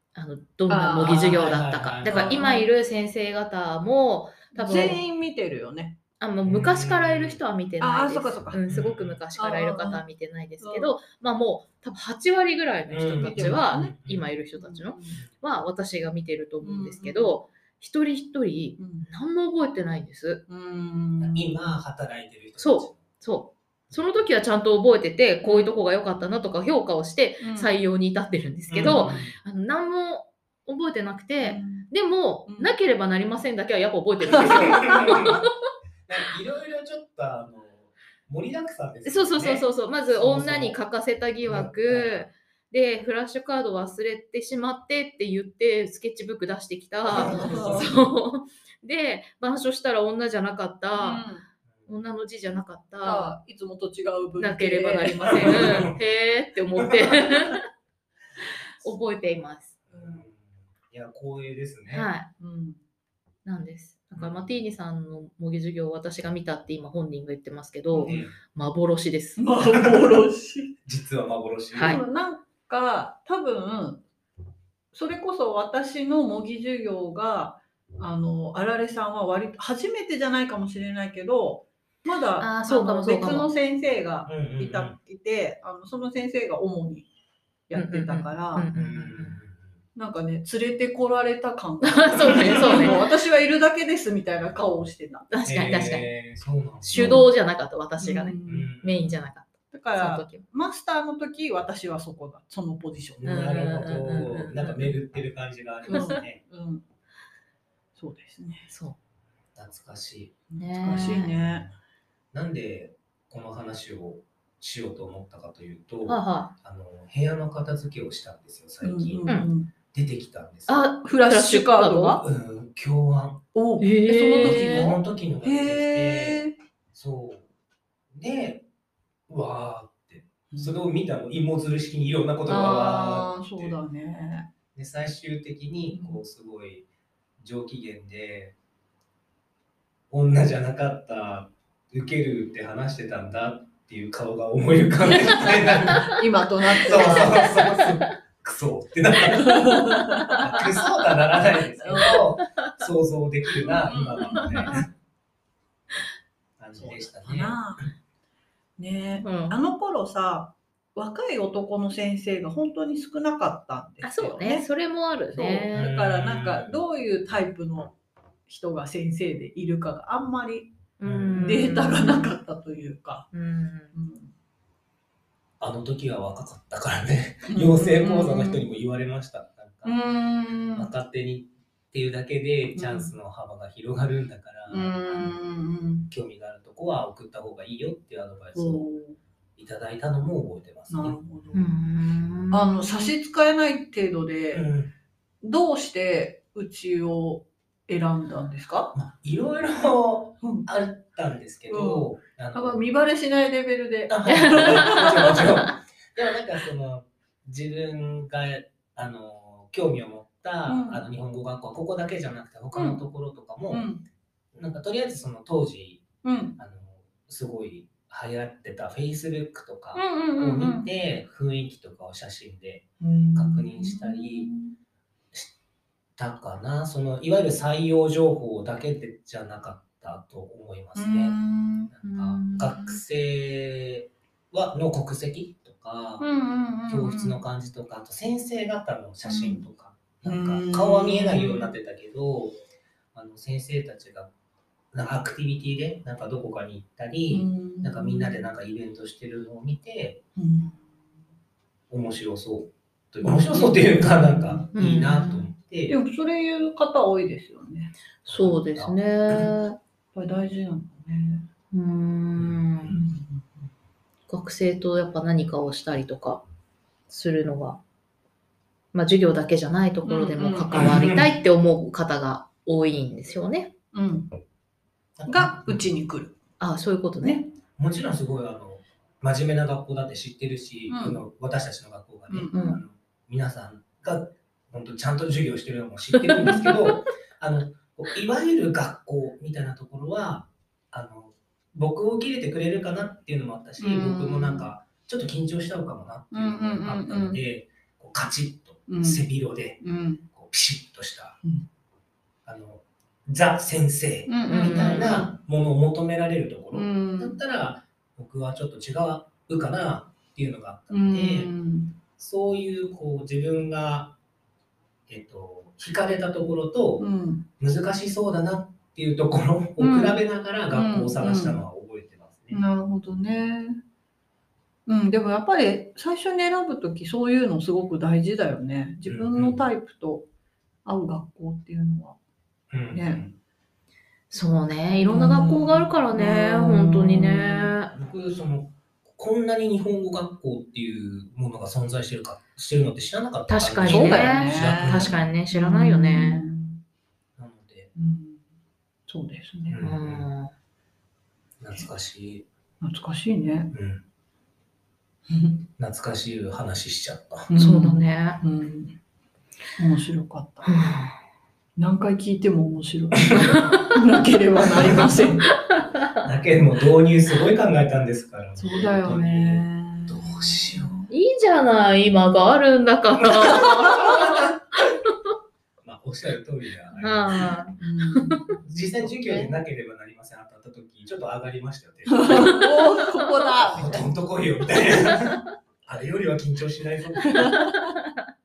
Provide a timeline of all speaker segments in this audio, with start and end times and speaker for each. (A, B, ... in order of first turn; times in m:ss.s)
0:00.1-0:05.0 A
0:00.7-0:01.4 B
0:01.1-0:02.4 C
0:02.0-0:02.7 B
0:04.5-0:06.0 B
0:06.2-0:20.4 A
0:06.4-0:07.4 C
0:07.8-0:08.6 B
0:08.7-0:09.2 C
0:09.4-0:10.0 B
0:10.6-0:10.9 B
0:12.9-0:14.3 C
0:13.2-0:14.0 B
0:14.5-0:15.2 B
0:16.6-0:17.3 B
0:18.8-0:19.1 B
0:20.5-0:21.6 B
0:21.2-0:23.1 C
0:22.6-0:35.4 A
0:23.9-0:24.2 C
0:25.4-0:25.7 B
0:27.4-0:27.7 B
0:28.7-0:29.3 C
0:28.8-0:29.2 B
0:31.4-0:31.9 B
0:32.5-0:32.7 B
0:34.3-0:35.4 C
0:34.3-0:35.3 B
0:36.0-0:40.8 C
0:39.0-0:51.2 A
0:41.4-0:42.3 C
0:47.1-0:48.1 C
0:47.1-0:47.9 B
0:51.0-0:51.4 B
0:51.9-0:53.4 A
0:53.0-0:55.9 B
0:54.4-0:57.6 A
0:55.3-0:56.0 C
0:56.8-0:57.6 C
0:58.8-0:59.8 A
0:59.9-1:02.1 C
0:59.9-1:00.2 B
1:01.9-1:02.3 A
1:02.4-1:02.8 B
1:03.4-1:09.5 A
1:04.2-1:04.5 C
1:07.9-1:08.2 B
1:08.0-1:08.3 C
1:09.4-1:10.8 B
1:10.8-1:12.0 C
1:11.7-1:12.0 A
1:11.8-1:14.0 B
1:14.9-1:27.1 B
1:22.4-1:23.5 A
1:24.2-1:25.0 C
1:27.7-1:28.7 B
1:27.7-1:29.4 A
1:28.7-1:29.7 C
1:29.9-1:35.3 B
1:31.8-1:33.0 A
1:32.2-1:33.0 C
1:35.3-1:36.1 A
1:35.4-1:37.2 C
1:36.8-1:40.4 A
1:36.9-1:37.2 B
1:38.0-1:38.7 B
1:38.4-1:39.2 C
1:39.7-1:43.3 B
1:43.2-1:46.4 C
1:43.2-1:44.9 A
1:45.9-1:46.8 B
1:48.0-1:48.7 B
1:48.7-1:49.0 A
1:49.5-1:51.7 C
1:50.5-1:51.7 B
1:50.6-1:51.3 A
1:52.3-1:59.2 C
1:56.0-1:56.5 A
1:58.8-1:59.7 B
1:59.9-2:00.8 C
2:00.7-2:02.2 A
2:01.0-2:02.2 B
2:02.2-2:03.4 C
2:03.5-2:06.6 B
2:03.8-2:04.9 A
2:04.4-2:07.5 C
2:08.1-2:08.6 C
2:09.3-2:13.8 C
2:10.5-2:10.9 B
2:12.5-2:14.5 B
2:14.7-2:16.9 C
2:15.9-2:16.2 B
2:17.4-2:18.6 C
2:20.1-2:26.2 C
2:25.7-2:27.6 B
2:26.8-2:34.8 C
2:27.3-2:27.8 A
2:29.3-2:30.6 B
2:30.2-2:30.6 A
2:31.8-2:32.2 B
2:32.0-2:32.2 A
2:33.6-2:34.8 B
2:34.3-2:34.7 A
2:36.6-2:37.6 C
2:36.7-2:37.9 B
2:38.8-2:44.6 B
2:39.1-2:39.6 A
2:44.0-2:45.8 A
2:45.3-2:47.9 B
2:45.7-2:46.8 C
2:48.5-2:50.7 B
2:51.0-2:52.3 A
2:51.0-2:51.6 C
2:51.4-2:53.3 B
2:53.3-2:53.9 A
2:53.9-2:54.3 B
2:55.6-3:00.0 C
2:57.5-2:58.6 B
2:59.8-3:00.9 B
3:00.7-3:05.4 C
3:02.7-3:03.1 B
3:04.7-3:06.1 B
3:06.1-3:08.8 C
3:08.5-3:09.2 B
3:09.6-3:11.2 C
3:10.9-3:11.8 B
3:11.5-3:13.1 A
3:12.5-3:14.7 B
3:14.5-3:14.9 C
3:15.4-3:18.9 B
3:18.9-3:22.8 C
3:20.4-3:20.7 B
3:21.7-3:25.5 B
3:24.1-3:33.8 C
3:24.3-3:25.7 A
3:30.7-3:31.0 B
3:32.7-3:33.0 B
3:33.7-3:34.0 B
3:34.5-3:36.0 C
3:36.2-3:36.6 B
3:36.6-3:44.5 C
3:39.9-3:40.9 B
3:43.0-3:44.7 B
3:46.2-3:51.4 C
3:51.0-3:51.9 B
3:51.9-3:56.2 C
3:52.0-3:52.9 A
3:56.2-3:57.4 B
3:56.9-4:02.6 C
3:59.2-3:59.6 B
4:00.2-4:01.7 B
4:03.1-4:04.3 C
4:04.9-4:10.2 C
4:07.3-4:08.4 B
4:10.4-4:11.0 B
4:11.9-4:16.0 C
4:13.2-4:14.6 B
4:14.7-4:15.5 A
4:15.9-4:17.9 B
4:18.3-4:19.5 C
4:18.3-4:19.8 A
4:20.1-4:21.5 B
4:21.7-4:23.0 A
4:22.4-4:23.0 C
4:22.9-4:23.6 B
4:24.3-4:26.4 A
4:27.1-4:27.8 A
4:28.9-4:33.7 A
4:30.0-4:30.8 B
4:30.7-4:31.3 C
4:33.9-4:34.3 B
4:35.2-4:35.8 C
4:35.3-4:36.4 B
4:36.6-4:37.4 A
4:37.8-5:01.4 C
4:40.9-4:41.2 B
4:42.3-4:42.8 B
4:42.5-4:42.8 A
4:46.1-4:46.8 A
4:53.8-4:54.7 B
4:56.3-4:57.4 B
4:58.9-5:00.2 B
5:02.4-5:11.5 C
5:04.3-5:05.2 B
5:04.5-5:05.3 A
5:06.7-5:07.4 B
5:10.9-5:12.0 B
5:12.2-5:14.2 C
5:15.1-5:17.0 C
5:17.0-5:17.5 B
5:17.6-5:22.6 C
5:19.8-5:20.2 B
5:20.7-5:21.6 B
5:22.5-5:23.8 B
5:24.9-5:30.3 B
5:29.1-5:29.6 C
5:30.8-5:32.2 B
5:32.7-5:33.3 C
5:32.9-5:33.2 B
5:34.3-5:37.9 A
5:35.1-5:37.7 B
5:37.9-5:45.2 C
5:43.5-5:46.4 A
5:43.8-5:46.8 B
5:47.4-5:47.9 C
5:47.9-5:48.5 B
5:49.1-5:49.8 B
5:49.7-5:50.3 C
5:49.8-5:50.5 A
5:51.6-5:52.5 C
5:52.8-5:53.7 B
5:53.7-5:54.0 C
5:55.3-5:55.7 B
5:55.8-5:57.5 C
5:57.5-5:59.0 B
5:57.6-5:58.4 A
5:59.8-6:00.8 B
6:00.6-6:01.1 A
6:01.8-6:05.5 B
6:03.3-6:03.7 C
6:03.5-6:04.0 A
6:04.8-6:05.3 C
6:05.7-6:06.2 A
6:06.2-6:10.9 C
6:08.6-6:11.1 B
6:11.1-6:14.3 A
6:13.2-6:14.6 C
6:13.2-6:14.5 B
6:15.8-6:17.6 C
6:17.0-6:18.5 A
6:17.8-6:18.5 B
6:18.6-6:22.7 C
6:19.2-6:19.6 A
6:22.1-6:24.0 B
6:23.6-6:27.7 C
6:27.3-6:27.9 B
6:27.5-6:27.9 A